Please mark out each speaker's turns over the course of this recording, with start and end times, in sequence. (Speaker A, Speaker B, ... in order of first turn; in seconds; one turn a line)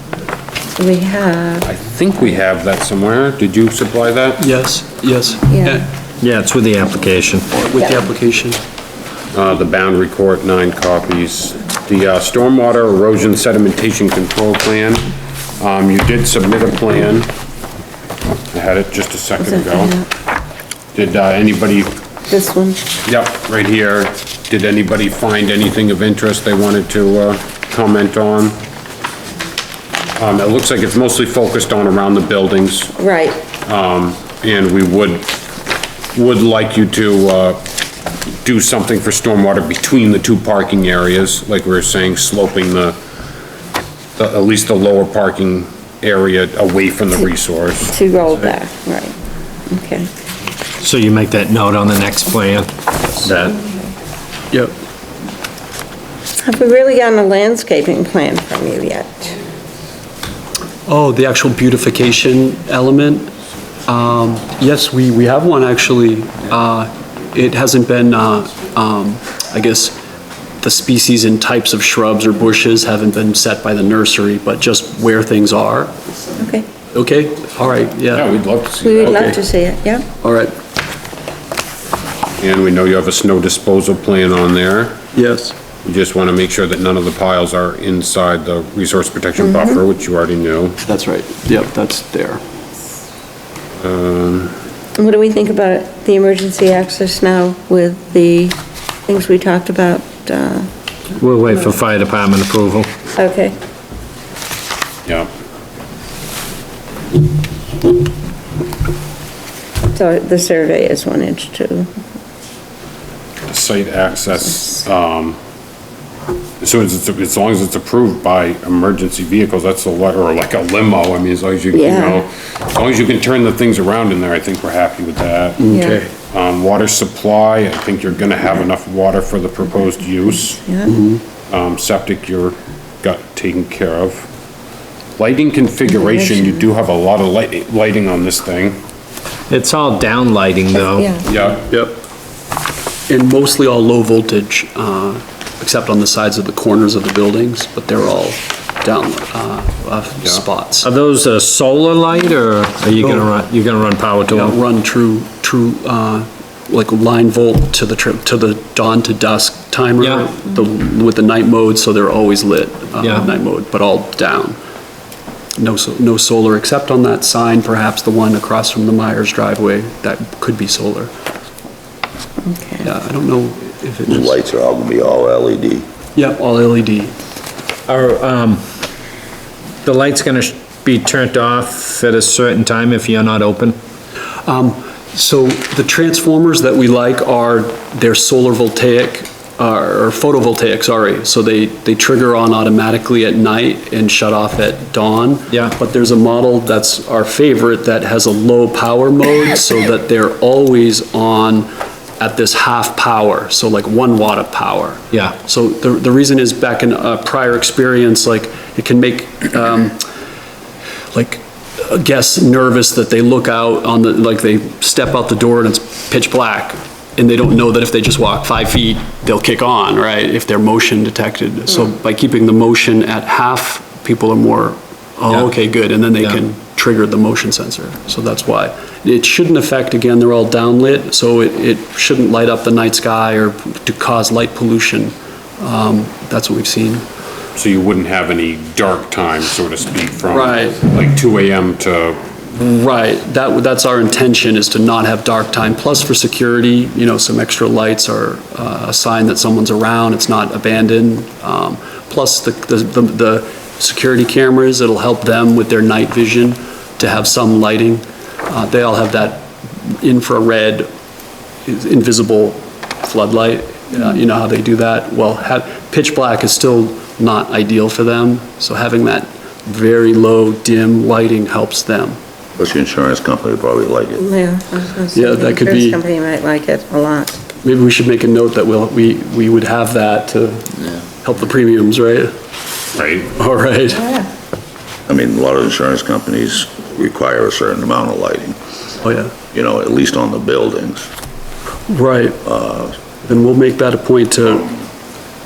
Speaker A: 0.8-1.7
Speaker B: 1.6-4.5
Speaker C: 4.4-5.9
Speaker A: 5.5-5.8
Speaker D: 6.2-7.5
Speaker C: 7.5-8.6
Speaker A: 7.8-8.1
Speaker B: 9.3-17.3
Speaker B: 18.5-20.0
Speaker A: 19.4-20.1
Speaker B: 20.9-21.9
Speaker A: 22.3-22.8
Speaker B: 23.1-28.6
Speaker B: 30.2-33.0
Speaker A: 33.0-33.4
Speaker B: 33.6-35.3
Speaker B: 36.1-37.6
Speaker B: 38.4-43.0
Speaker B: 44.2-48.0
Speaker A: 47.9-49.1
Speaker A: 49.7-50.1
Speaker D: 50.8-53.6
Speaker A: 56.4-59.4
Speaker C: 60.9-63.3
Speaker C: 63.9-70.0
Speaker C: 70.6-76.0
Speaker A: 76.4-76.7
Speaker C: 76.9-78.3
Speaker B: 78.1-79.4
Speaker A: 78.8-80.1
Speaker C: 79.0-79.4
Speaker C: 80.2-80.6
Speaker B: 82.4-85.0
Speaker C: 85.1-85.5
Speaker B: 85.8-90.8
Speaker A: 89.4-89.8
Speaker C: 90.8-92.4
Speaker B: 93.8-94.5
Speaker A: 95.0-98.6
Speaker A: 99.1-100.7
Speaker D: 101.2-102.9
Speaker A: 103.1-103.6
Speaker A: 109.9-111.9
Speaker B: 113.5-115.4
Speaker B: 116.6-130.6
Speaker A: 121.7-122.2
Speaker C: 125.6-126.1
Speaker A: 125.7-126.0
Speaker A: 130.5-130.9
Speaker C: 130.9-131.2
Speaker B: 131.5-134.3
Speaker B: 135.2-138.8
Speaker A: 135.9-136.7
Speaker D: 139.5-141.1
Speaker A: 141.0-141.3
Speaker B: 141.3-141.7
Speaker C: 141.7-142.0
Speaker C: 143.1-150.9
Speaker D: 150.8-154.6
Speaker C: 153.0-153.3
Speaker C: 154.3-164.6
Speaker C: 165.6-171.1
Speaker A: 172.4-172.9
Speaker C: 172.8-174.4
Speaker E: 174.0-175.8
Speaker C: 176.2-177.2
Speaker D: 177.9-178.6
Speaker D: 179.8-183.8
Speaker C: 184.4-210.0
Speaker C: 211.1-237.1
Speaker B: 237.6-242.2
Speaker C: 240.3-240.8
Speaker C: 242.6-260.9
Speaker C: 261.6-272.2
Speaker E: 272.6-274.2
Speaker A: 274.2-277.4
Speaker C: 275.1-276.0
Speaker C: 277.6-282.3
Speaker B: 282.9-283.3
Speaker C: 283.3-284.1
Speaker E: 285.1-288.6
Speaker C: 289.0-289.3
Speaker E: 289.5-291.1
Speaker C: 291.9-292.4
Speaker E: 292.4-292.9
Speaker C: 293.2-294.7